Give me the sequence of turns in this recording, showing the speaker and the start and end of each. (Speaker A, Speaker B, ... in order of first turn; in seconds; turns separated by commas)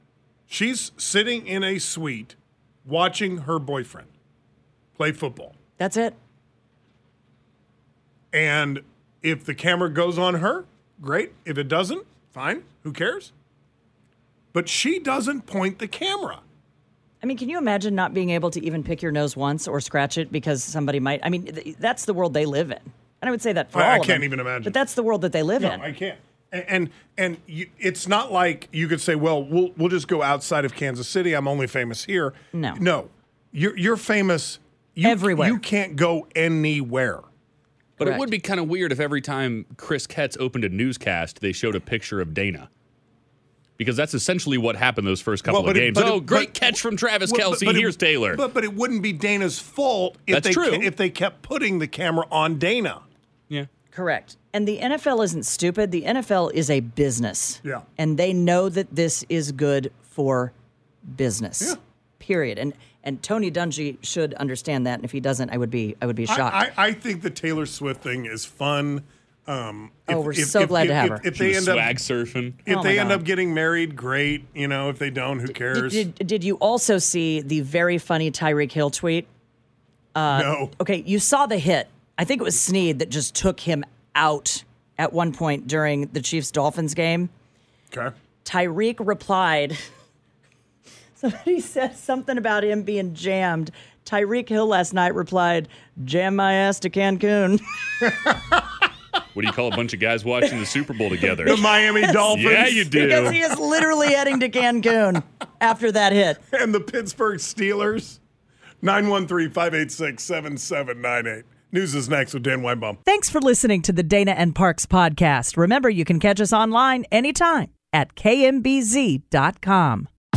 Speaker A: 0.5-4.1, Speaker A: 4.9-5.5, Speaker B: 5.8-6.2, Speaker A: 8.3-13.3, Speaker A: 14.5-16.4, Speaker B: 17.2-25.8, Speaker A: 23.7-24.8, Speaker A: 25.6-37.2, Speaker B: 32.5-32.8, Speaker B: 35.0-35.6, Speaker C: 38.0-42.7, Speaker C: 43.8-48.4, Speaker A: 45.5-53.0, Speaker C: 50.3-50.9, Speaker B: 53.9-60.5, Speaker B: 61.0-66.6, Speaker A: 66.3-72.0, Speaker B: 70.1-71.2, Speaker C: 71.3-72.6, Speaker A: 72.6-76.1, Speaker B: 72.7-73.2, Speaker B: 75.7-79.3, Speaker B: 80.1-87.3, Speaker A: 80.3-80.8, Speaker B: 88.4-89.8, Speaker B: 91.2-97.6, Speaker C: 99.3-101.6, Speaker A: 101.4-103.3, Speaker B: 101.5-106.4, Speaker C: 102.3-103.4, Speaker A: 106.5-108.2, Speaker A: 108.8-113.0, Speaker B: 113.0-120.1